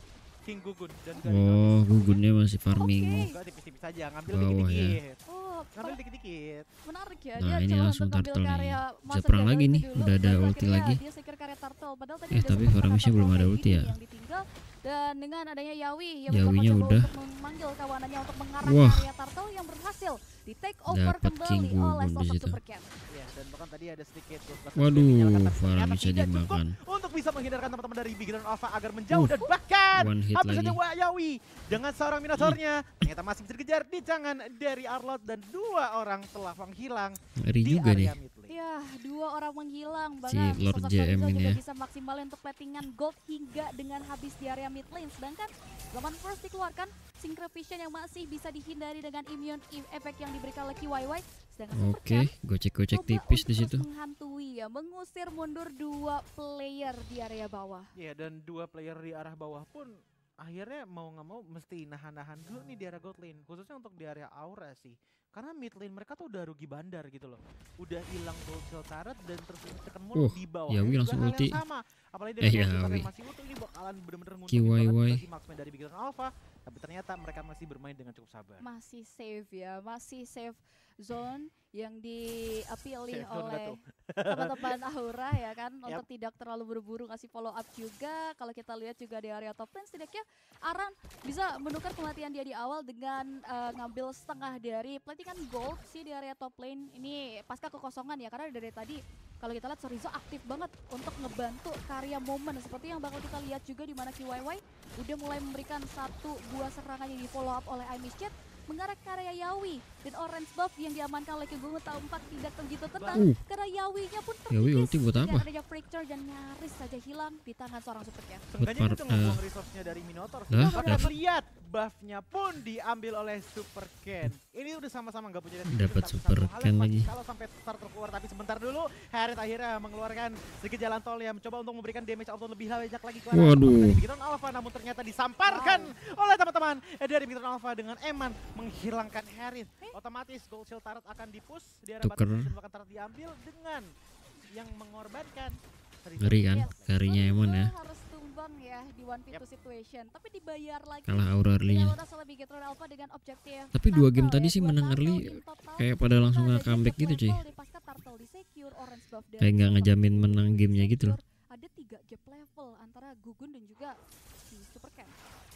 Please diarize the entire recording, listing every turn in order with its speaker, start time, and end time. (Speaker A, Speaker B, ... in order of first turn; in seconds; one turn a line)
Speaker A: 0.5-2.2
Speaker B: 1.2-3.3
Speaker C: 2.7-3.4
Speaker A: 3.2-5.2
Speaker B: 4.3-5.0
Speaker C: 5.3-6.0
Speaker A: 5.7-6.7
Speaker C: 6.8-22.9
Speaker B: 7.4-11.0
Speaker B: 12.3-13.9
Speaker B: 16.3-17.1
Speaker B: 18.6-19.1
Speaker B: 20.9-22.6
Speaker A: 23.1-38.6
Speaker B: 24.8-26.8
Speaker C: 29.3-29.6
Speaker B: 29.9-30.8
Speaker B: 37.4-38.1
Speaker C: 38.5-52.3
Speaker B: 40.3-41.6
Speaker B: 51.7-53.8
Speaker C: 52.9-57.9
Speaker A: 58.0-78.6
Speaker B: 70.1-71.6
Speaker B: 72.4-73.1
Speaker B: 74.5-75.2
Speaker C: 78.6-118.5
Speaker A: 83.1-84.7
Speaker A: 112.9-113.3
Speaker B: 114.5-115.5
Speaker A: 118.5-143.9
Speaker B: 118.6-119.4
Speaker B: 120.5-121.1
Speaker C: 120.6-121.1
Speaker B: 125.7-127.1
Speaker B: 133.3-134.0
Speaker C: 135.4-135.9
Speaker B: 142.0-142.5
Speaker A: 144.5-146.9
Speaker B: 146.2-147.7
Speaker C: 146.4-165.2
Speaker B: 151.1-152.0
Speaker B: 153.7-157.4
Speaker B: 159.4-161.2